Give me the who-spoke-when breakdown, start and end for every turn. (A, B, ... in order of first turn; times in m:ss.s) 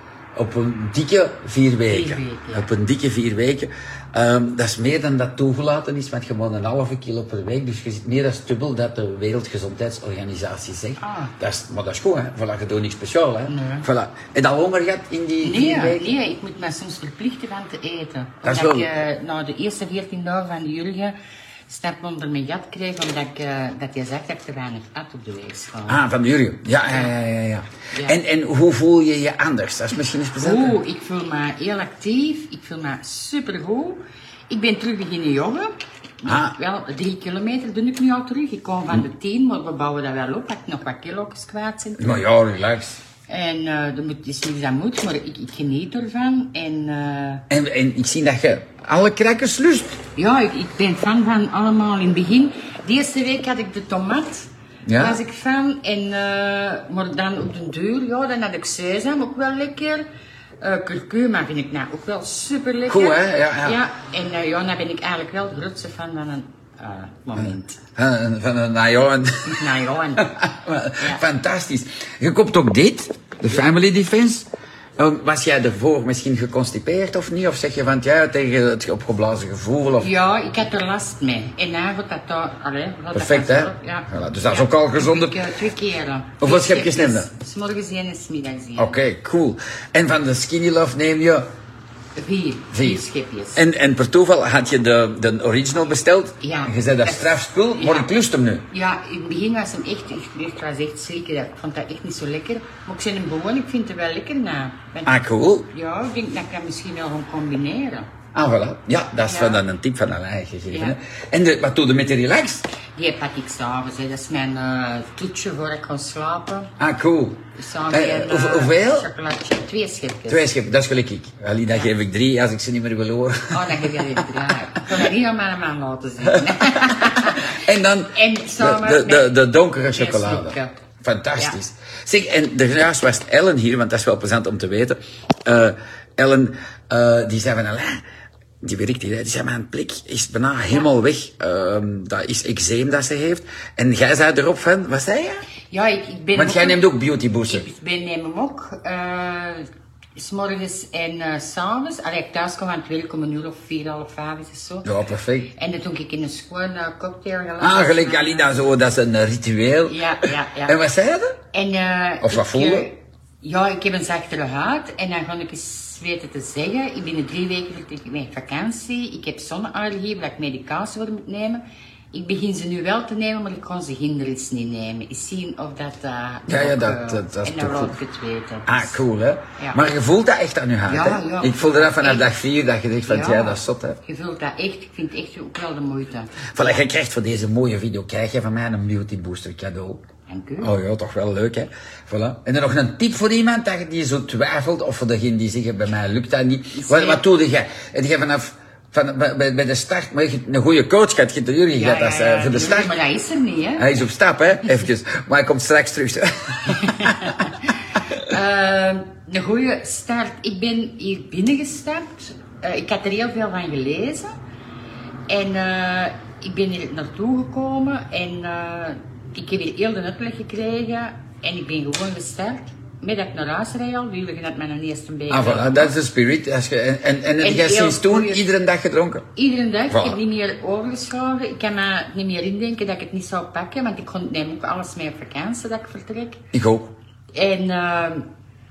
0:00.4-0:16.1 A
0:01.9-0:02.7 B
0:11.0-0:11.3 B
0:13.5-0:13.9 B
0:15.4-0:21.2 B
0:18.4-0:18.9 A
0:21.7-0:26.0 B
0:25.9-0:30.8 A
0:26.9-0:27.1 B
0:27.9-0:28.2 B
0:30.4-0:42.2 B
0:36.3-0:36.6 A
0:42.0-0:43.0 A
0:43.3-0:47.5 B
0:47.5-0:50.0 A
0:50.2-1:00.0 B
0:54.9-0:55.2 A
1:00.6-1:07.8 B
1:02.9-1:03.8 A
1:07.4-1:20.1 A
1:09.5-1:10.3 B
1:20.0-1:29.0 B
1:23.1-1:25.4 A
1:26.4-1:27.3 A
1:28.8-1:31.5 A
1:32.2-1:33.6 B
1:32.7-1:33.0 A
1:33.6-1:38.7 A
1:36.4-1:38.1 B
1:38.7-1:48.1 B
1:45.1-1:45.7 A
1:48.3-1:52.7 A
1:49.2-1:49.6 B
1:50.7-1:51.0 B
1:53.0-1:56.7 B
1:56.8-1:59.1 A
1:57.6-2:00.5 B
2:00.3-2:04.8 A
2:03.5-2:07.6 B
2:06.3-2:18.0 A
2:08.1-2:10.7 B
2:18.6-2:25.4 A
2:25.7-2:26.9 B
2:26.4-2:27.6 A
2:27.5-2:34.9 B
2:34.8-2:35.5 A
2:35.6-2:38.6 B
2:37.6-2:40.1 A
2:39.9-2:40.8 B
2:40.7-2:41.3 A
2:41.5-2:51.6 B
2:42.2-2:42.9 A
2:52.1-2:59.0 B
2:56.5-2:57.9 A
2:58.7-3:04.0 A
2:59.6-2:59.9 B
3:00.9-3:02.3 B
3:03.1-3:06.8 B
3:06.5-3:10.0 A
3:10.3-3:10.7 B
3:10.6-3:23.0 A
3:16.7-3:17.2 B
3:21.7-3:24.0 B
3:23.8-3:27.3 A
3:26.7-3:34.3 B
3:35.3-3:46.0 B
3:45.3-3:49.2 A
3:47.4-3:48.5 B
3:49.4-3:56.4 B
3:49.9-3:50.2 A
3:56.5-3:56.9 A
3:57.3-3:58.3 B